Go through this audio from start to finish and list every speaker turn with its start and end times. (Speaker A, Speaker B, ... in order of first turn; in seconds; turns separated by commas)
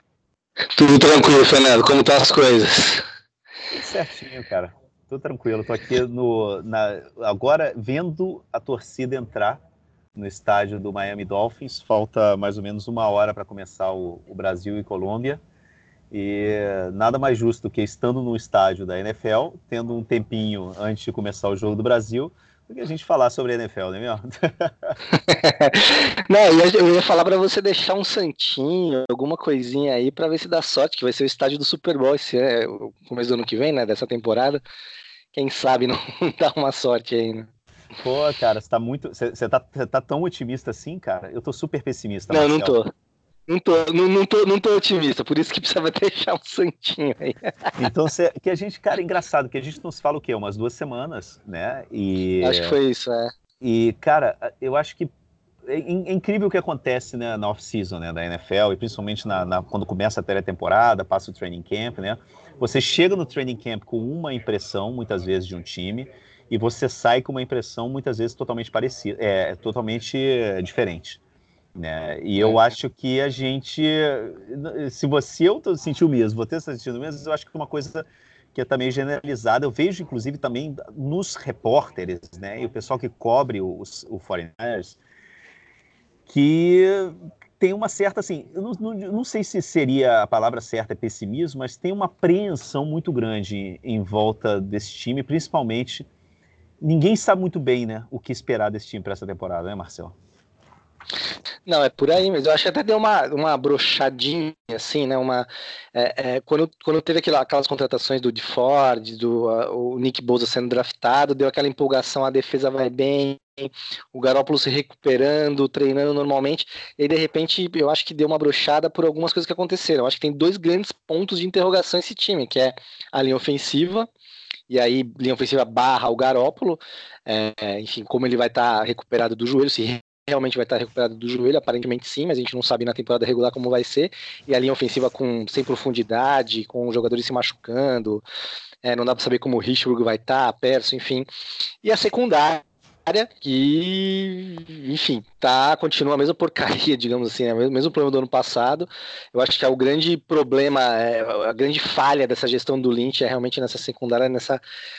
Speaker A: 0.8-3.0, Speaker B: 3.7-9.6, Speaker B: 10.2-15.4, Speaker B: 16.1-25.0, Speaker A: 25.1-34.6, Speaker A: 35.3-37.5, Speaker B: 38.0-42.8, Speaker A: 42.3-42.9, Speaker A: 43.5-47.8, Speaker B: 47.8-52.8, Speaker A: 52.4-53.3, Speaker B: 53.6-55.1, Speaker B: 55.7-71.2, Speaker B: 71.8-85.0, Speaker B: 86.3-96.1, Speaker B: 96.8-100.2, Speaker A: 101.7-124.1, Speaker A: 124.7-138.2, Speaker A: 138.8-141.3, Speaker A: 141.8-154.6